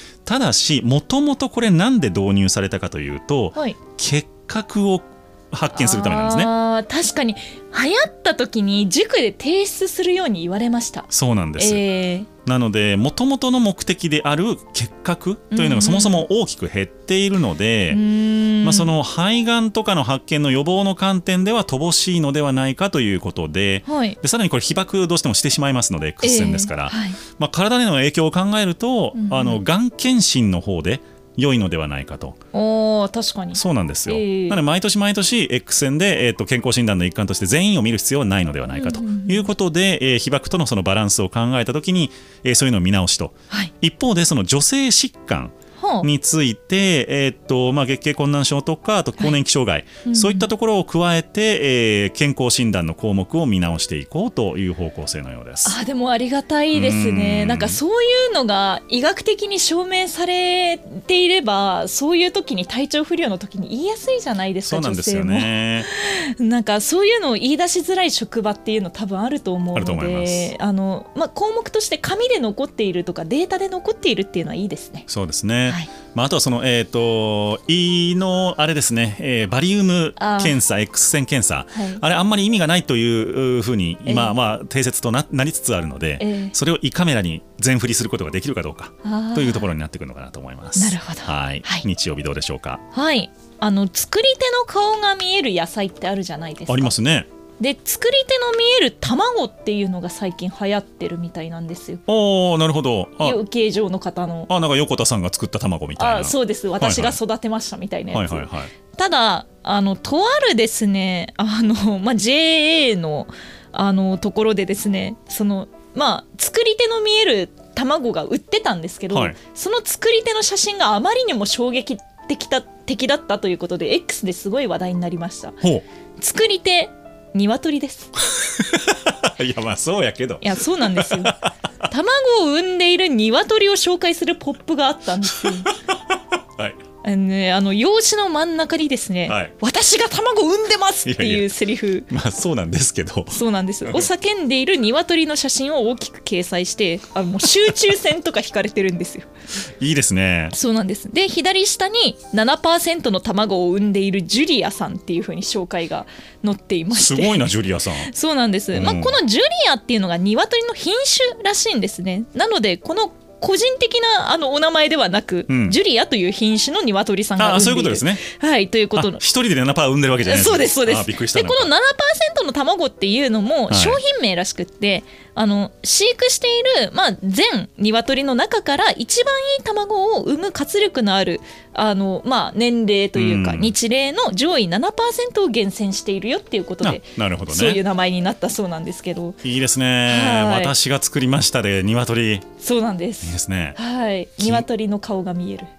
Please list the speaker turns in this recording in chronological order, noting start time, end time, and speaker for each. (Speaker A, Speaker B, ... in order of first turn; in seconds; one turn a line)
Speaker A: 0.3-6.5
Speaker B: 5.7-12.3
Speaker A: 11.1-11.8
Speaker A: 12.4-18.0
Speaker B: 15.5-16.2
Speaker B: 17.9-18.9
Speaker A: 18.6-32.4
Speaker B: 23.9-24.2
Speaker B: 26.2-27.2
Speaker B: 29.1-29.6
Speaker B: 32.5-34.6
Speaker A: 33.5-55.8
Speaker B: 38.7-39.5
Speaker B: 45.8-46.1
Speaker B: 50.0-50.5
Speaker B: 55.6-75.1
Speaker A: 56.7-57.8
Speaker A: 64.7-65.9
Speaker A: 69.8-70.5
Speaker A: 75.1-92.8
Speaker B: 80.2-80.6
Speaker B: 81.7-82.0
Speaker B: 84.0-84.3
Speaker B: 86.2-86.5
Speaker B: 89.0-89.7
Speaker B: 90.8-91.9
Speaker B: 92.9-97.0
Speaker A: 96.7-97.3
Speaker B: 97.6-102.0
Speaker A: 102.1-103.4
Speaker B: 103.2-104.5
Speaker A: 104.5-107.2
Speaker B: 106.0-125.6
Speaker A: 108.1-108.7
Speaker B: 126.2-128.1
Speaker A: 128.3-131.5
Speaker B: 130.4-131.3
Speaker B: 131.9-135.7
Speaker A: 135.4-136.0
Speaker B: 137.0-142.1
Speaker A: 139.3-139.5
Speaker A: 141.1-141.5
Speaker A: 142.1-144.1
Speaker B: 143.3-149.3
Speaker A: 149.8-150.5
Speaker B: 150.5-169.2
Speaker A: 156.9-158.1
Speaker A: 158.7-159.2
Speaker A: 165.5-165.8
Speaker A: 167.4-168.2
Speaker A: 168.9-171.7
Speaker B: 170.3-189.4
Speaker A: 173.7-174.0
Speaker A: 183.2-183.7
Speaker A: 186.8-187.8
Speaker A: 189.4-192.5
Speaker B: 190.1-190.7
Speaker B: 192.6-195.7
Speaker A: 193.2-193.8
Speaker A: 194.4-194.7